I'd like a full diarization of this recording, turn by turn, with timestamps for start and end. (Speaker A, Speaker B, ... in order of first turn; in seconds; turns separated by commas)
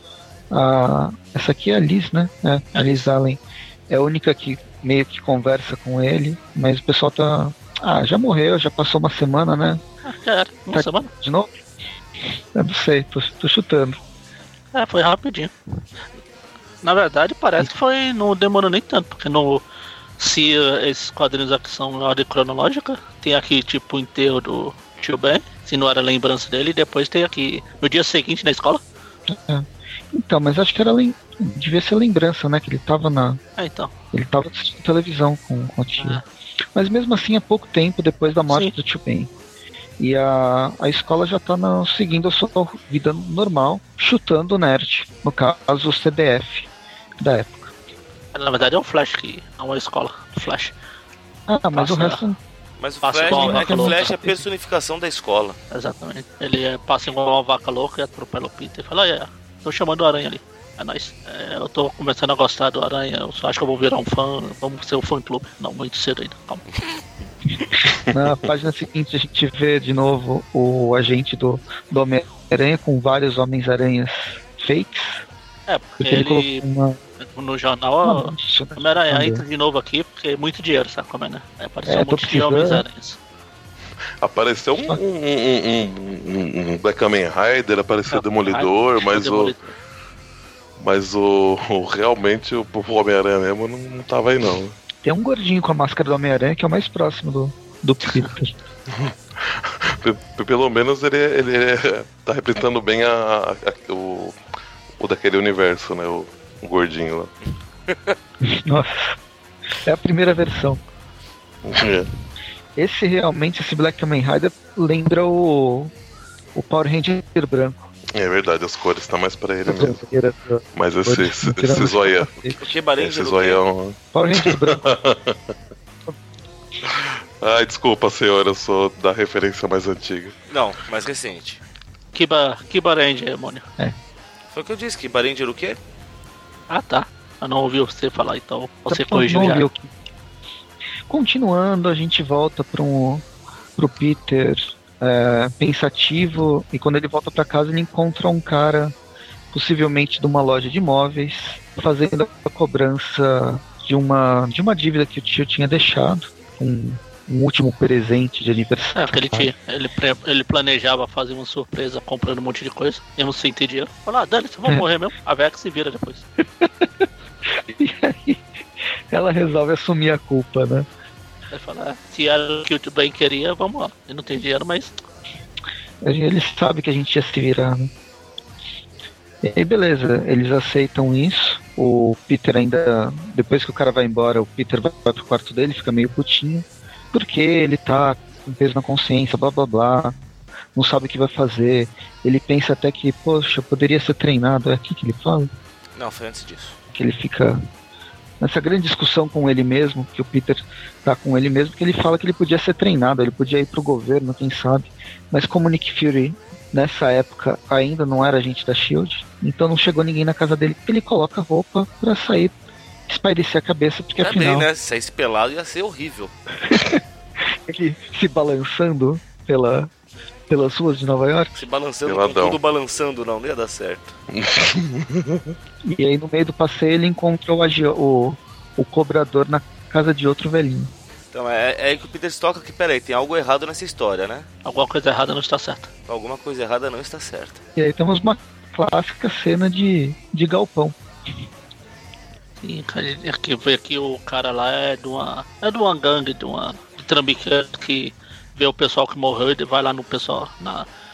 Speaker A: 0.5-9.8, Speaker B: 2.7-3.1, Speaker B: 10.0-11.1, Speaker A: 10.7-11.5, Speaker A: 12.5-14.0, Speaker B: 14.7-15.5, Speaker B: 16.8-19.6, Speaker B: 20.2-28.8, Speaker A: 29.3-33.4, Speaker B: 33.6-33.9, Speaker A: 34.1-36.2, Speaker B: 36.0-36.2, Speaker A: 36.7-39.3, Speaker B: 38.5-38.7, Speaker A: 40.0-46.7, Speaker A: 47.2-47.7, Speaker B: 48.3-50.7, Speaker A: 51.5-52.4, Speaker B: 51.7-52.2, Speaker C: 52.8-55.6, Speaker B: 53.0-54.1, Speaker A: 53.3-54.4, Speaker B: 55.7-66.6, Speaker A: 68.0-75.2, Speaker B: 75.7-76.6, Speaker A: 76.0-77.0, Speaker B: 77.2-83.2, Speaker A: 78.0-79.4, Speaker A: 81.9-82.8, Speaker D: 84.2-89.6, Speaker B: 88.1-89.6, Speaker D: 90.8-94.8, Speaker A: 95.0-98.5, Speaker D: 98.9-104.4, Speaker D: 105.0-107.3, Speaker C: 107.9-108.2, Speaker A: 108.4-109.2, Speaker A: 109.8-110.8, Speaker D: 111.6-112.1, Speaker A: 112.8-115.9, Speaker A: 116.5-117.8, Speaker D: 118.1-120.0, Speaker A: 119.7-122.5, Speaker D: 120.7-125.5, Speaker C: 122.6-123.6, Speaker A: 124.1-124.8, Speaker D: 126.8-130.4, Speaker C: 130.5-131.6, Speaker B: 132.1-133.7, Speaker C: 134.5-135.8, Speaker B: 136.7-139.7, Speaker A: 138.9-139.9, Speaker A: 141.1-143.2, Speaker A: 143.8-148.9, Speaker A: 149.5-159.5, Speaker B: 158.9-166.2, Speaker A: 166.6-168.4, Speaker A: 169.1-170.9, Speaker B: 171.5-174.9, Speaker A: 176.0-177.9, Speaker A: 179.4-190.1, Speaker A: 190.7-195.5, Speaker C: 195.9-196.8, Speaker A: 196.9-197.6, Speaker A: 198.4-212.5, Speaker A: 213.1-214.7, Speaker C: 214.2-216.3, Speaker A: 216.6-219.9, Speaker A: 220.5-221.6, Speaker C: 221.6-224.1, Speaker D: 222.0-222.6, Speaker D: 224.3-225.5, Speaker A: 225.8-230.9, Speaker C: 231.3-234.5, Speaker B: 234.6-235.9, Speaker C: 236.1-237.6, Speaker A: 237.8-240.9, Speaker B: 242.6-250.9